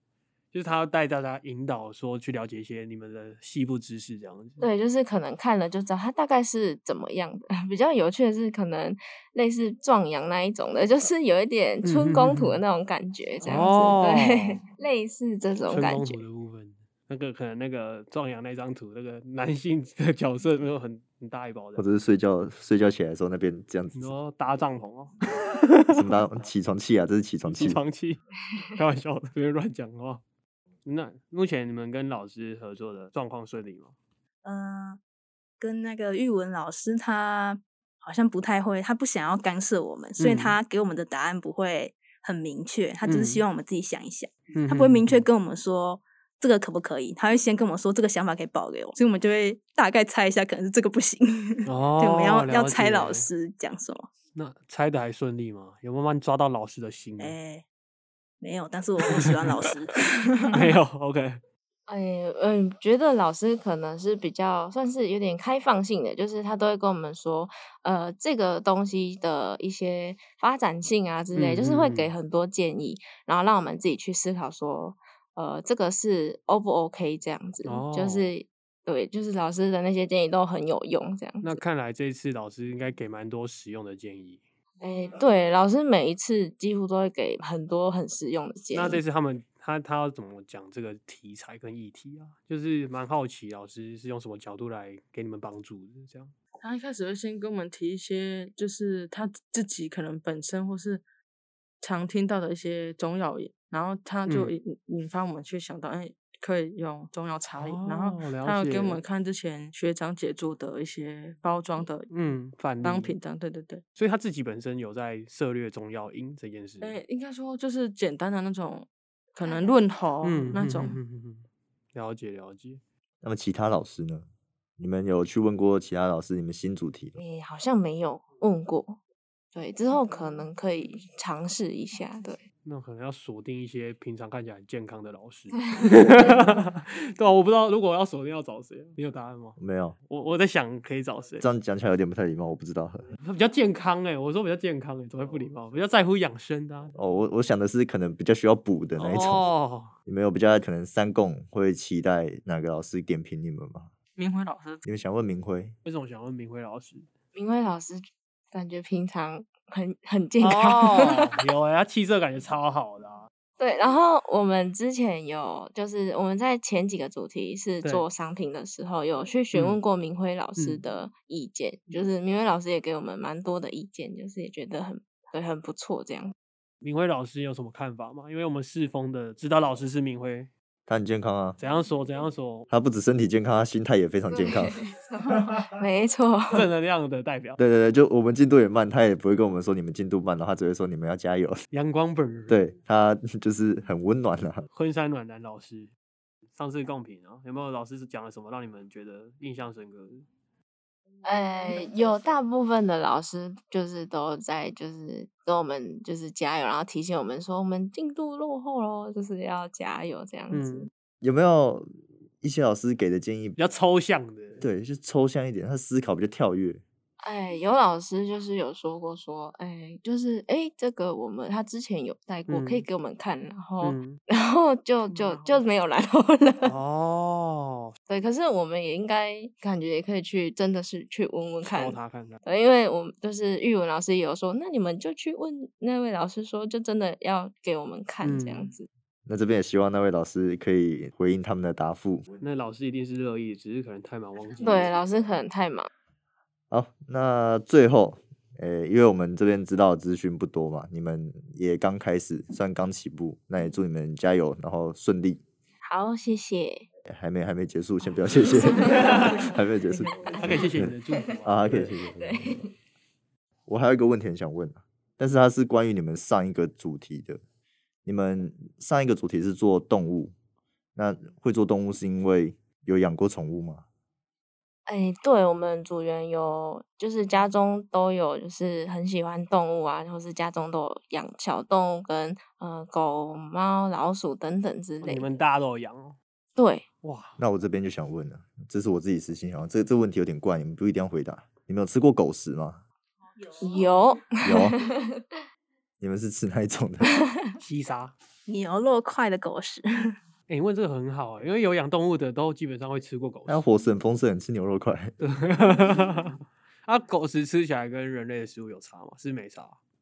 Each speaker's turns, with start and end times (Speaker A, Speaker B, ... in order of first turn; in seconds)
Speaker A: 0.5-4.7, 11.8-12.6, 13.4-14.6, 15.7-21.9, 23.9-26.2, 27.4-30.2, 30.8-33.9, 40.2-40.6, 43.0-43.4, 44.5-45.2, 51.6-53.3, 54.3-57.4, 59.1-59.7, 60.5-61.4, 71.3-72.1, 77.6-78.3, 81.4-84.4, 88.7-96.3, 104.3-104.5, 107.5-109.0, 112.1-113.1, 114.0-117.0, 120.2-122.8, 132.6-139.6, 140.1-141.5, 143.2-146.9, 149.0-149.9, 155.8-157.1, 160.4-163.3, 169.5-169.8, 176.8-180.5, 181.6-182.7, 186.5-187.6, 191.7-192.6, 194.7-195.9, 196.5-200.2, 210.5-210.9, 213.6-214.7, 222.5-222.8, 223.8-224.2, 226.6-227.9, 231.6-232.4, 238.2-238.7, 242.4-244.9, 258.9-259.4, 260.3-261.9, 285.0-286.1, 287.0-287.4, 297.6-298.1, 300.5-303.6, 305.2-309.8
Speaker B: 4.6-16.2, 61.9-81.6, 84.8-89.0, 127.2-129.0, 129.5-132.4, 135.6-136.6, 157.3-161.3, 163.6-176.3, 184.3-186.7, 201.2-210.9, 217.2-226.8, 228.1-238.9, 244.6-245.9, 255.8-256.9, 258.5-259.4, 260.1-261.2, 262.2-262.6, 274.9-285.4, 286.6-286.8, 293.6-295.2
Speaker C: 21.8-24.1, 25.9-27.8, 123.2-124.2, 124.8-127.2, 139.6-139.9, 141.4-143.1, 146.9-149.5, 150.1-153.9, 154.8-155.7, 180.9-181.6, 182.7-184.8, 187.6-191.6, 192.5-194.6, 211.2-213.6, 214.6-216.8, 239.2-242.2, 246.7-255.4, 257.1-260.9, 261.4-262.6, 263.7-267.4, 268.0-270.3, 270.9-273.8, 287.4-292.8, 294.4-294.8, 296.0-297.1, 303.5-305.1
Speaker D: 34.4-35.0, 35.6-54.1, 57.2-57.6, 58.4-60.6, 298.5-300.1
Speaker E: 96.6-101.0, 101.8-112.1, 112.8-113.8, 116.8-121.0, 154.2-154.8, 225.1-225.6